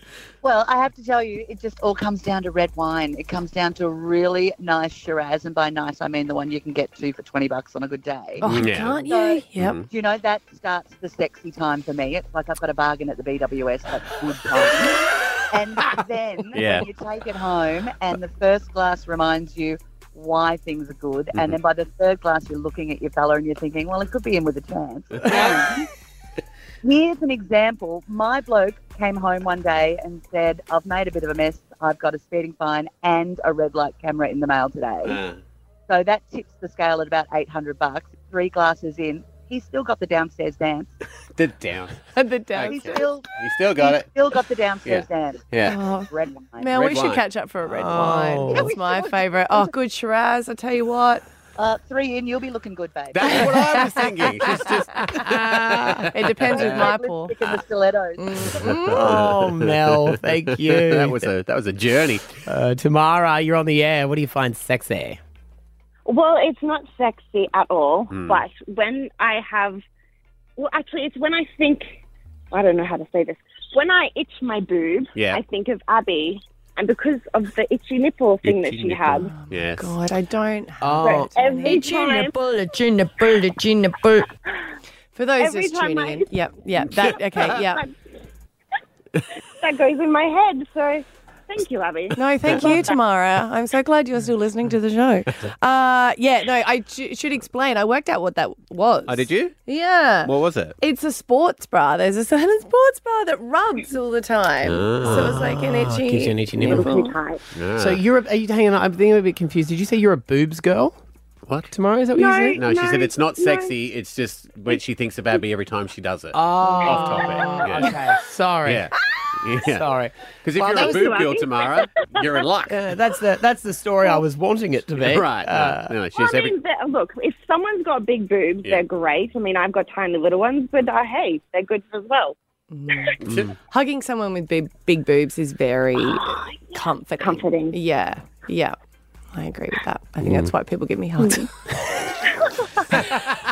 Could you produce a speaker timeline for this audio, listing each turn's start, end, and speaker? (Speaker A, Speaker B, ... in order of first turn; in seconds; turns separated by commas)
Speaker A: 0.4-25.9, Speaker B: 8.4-9.8, Speaker C: 8.4-9.9, Speaker C: 16.5-16.9, Speaker C: 25.2-25.6, Speaker A: 26.8-35.2, Speaker C: 35.0-35.4, Speaker A: 35.9-40.9, Speaker C: 41.4-42.0, Speaker B: 42.1-43.1, Speaker C: 42.5-44.1, Speaker A: 42.6-46.7, Speaker C: 44.8-45.8, Speaker B: 45.6-51.2, Speaker C: 46.7-47.2, Speaker D: 47.7-48.7, Speaker A: 48.5-49.2, Speaker A: 51.6-53.6, Speaker C: 53.1-57.0, Speaker B: 53.5-54.6, Speaker D: 55.2-56.2, Speaker B: 56.1-57.4, Speaker A: 56.5-58.4, Speaker B: 58.2-59.2, Speaker C: 58.5-62.4, Speaker D: 58.9-61.3, Speaker D: 62.4-65.2, Speaker E: 66.1-69.8, Speaker C: 68.1-68.4, Speaker E: 70.6-79.3, Speaker C: 75.2-75.4, Speaker C: 78.4-80.0, Speaker B: 79.3-84.3, Speaker D: 80.8-81.3, Speaker E: 81.0-82.4, Speaker B: 85.1-87.8, Speaker E: 85.4-86.3, Speaker E: 89.6-92.8, Speaker B: 92.2-107.2, Speaker C: 99.1-99.6, Speaker C: 100.2-100.8, Speaker C: 104.6-105.4, Speaker D: 105.0-107.1, Speaker E: 106.6-107.4, Speaker C: 107.5-108.0, Speaker D: 107.8-111.0, Speaker D: 111.7-112.6, Speaker E: 112.2-113.7, Speaker C: 112.6-118.0, Speaker D: 116.3-118.9, Speaker C: 118.7-119.9, Speaker D: 119.7-121.2, Speaker C: 120.4-122.8, Speaker E: 120.8-121.9, Speaker D: 122.7-126.0, Speaker C: 125.0-126.5, Speaker E: 126.2-132.3, Speaker B: 132.7-133.2, Speaker C: 133.2-133.5, Speaker B: 133.7-138.8, Speaker E: 136.0-137.8, Speaker B: 139.3-141.5, Speaker B: 142.8-143.1